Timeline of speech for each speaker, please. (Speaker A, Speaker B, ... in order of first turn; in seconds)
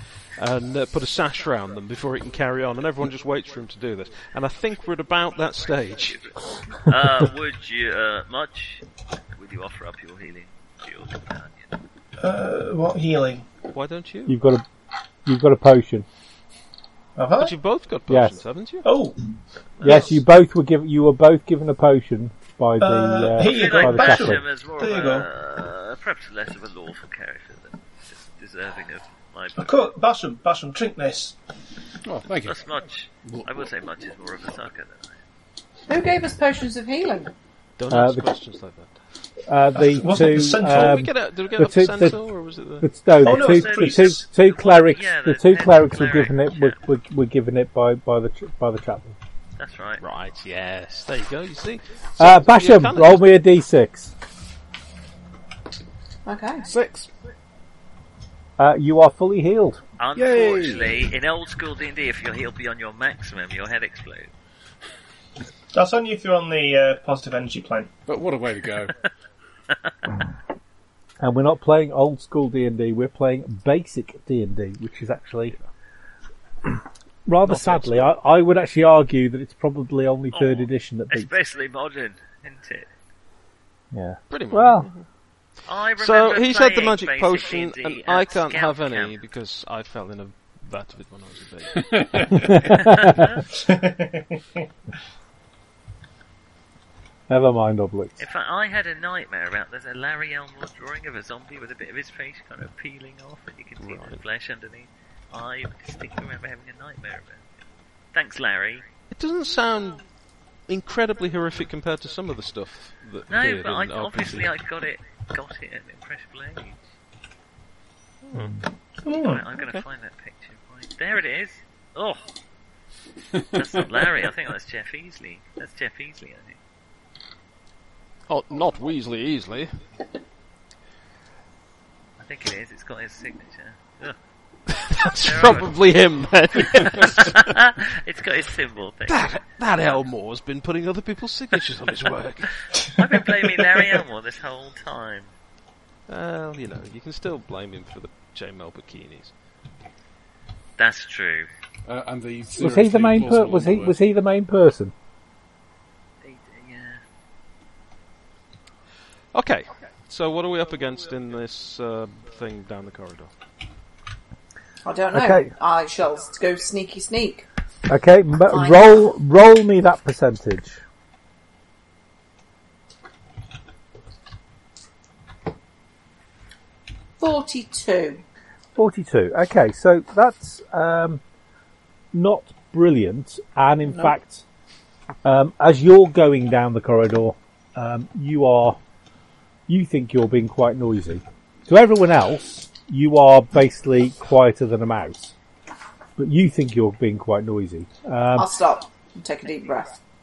Speaker A: 0.4-6.2, 13.7-14.4, 17.4-18.9, 37.8-39.0, 40.6-42.9, 50.0-53.3, 60.2-60.8, 77.5-78.1, 84.3-85.1, 86.0-92.0, 103.8-104.2, 109.1-110.0, 110.7-114.5, 118.2-118.6, 119.5-119.8, 128.3-129.7, 134.7-137.4, 139.1-142.5, 146.1-149.3, 159.3-163.3
Speaker B: 6.0-11.7, 19.8-20.1, 23.4-29.7, 32.5-35.2, 43.2-46.8, 49.6-50.0, 60.0-64.3, 80.3-82.9, 85.7-89.2, 92.8-93.4, 98.2-107.4, 108.1-108.8, 113.3-116.8, 119.1-122.3, 123.4-126.6, 132.2-134.2, 135.0-135.8, 136.8-140.0, 142.8-145.3, 150.8-151.5, 156.2-157.0
Speaker C: 12.2-13.4, 17.2-17.5, 18.9-19.2, 22.8-25.3, 29.6-31.4, 39.8-41.0, 43.2-44.2, 65.7-67.9, 93.5-94.3, 119.1-119.4
Speaker D: 14.3-14.7, 15.2-16.1, 18.1-18.4, 19.8-24.4, 37.9-38.3, 39.5-42.2, 42.8-49.2, 52.2-54.1, 58.6-59.8, 71.2-75.6, 76.7-81.3, 83.9-84.9, 92.5-92.8, 97.3-98.2, 152.6-154.9, 165.1-165.5, 167.9-170.8, 178.8-181.2, 182.1-184.4, 185.2-188.8, 189.7-195.3, 196.2-198.5
Speaker E: 32.0-32.6, 56.7-57.1, 60.4-60.9, 68.1-68.9, 92.0-92.3, 151.9-153.9
Speaker F: 35.9-37.3, 56.3-56.7, 164.8-167.5, 168.5-169.0, 177.2-178.2, 198.4-200.0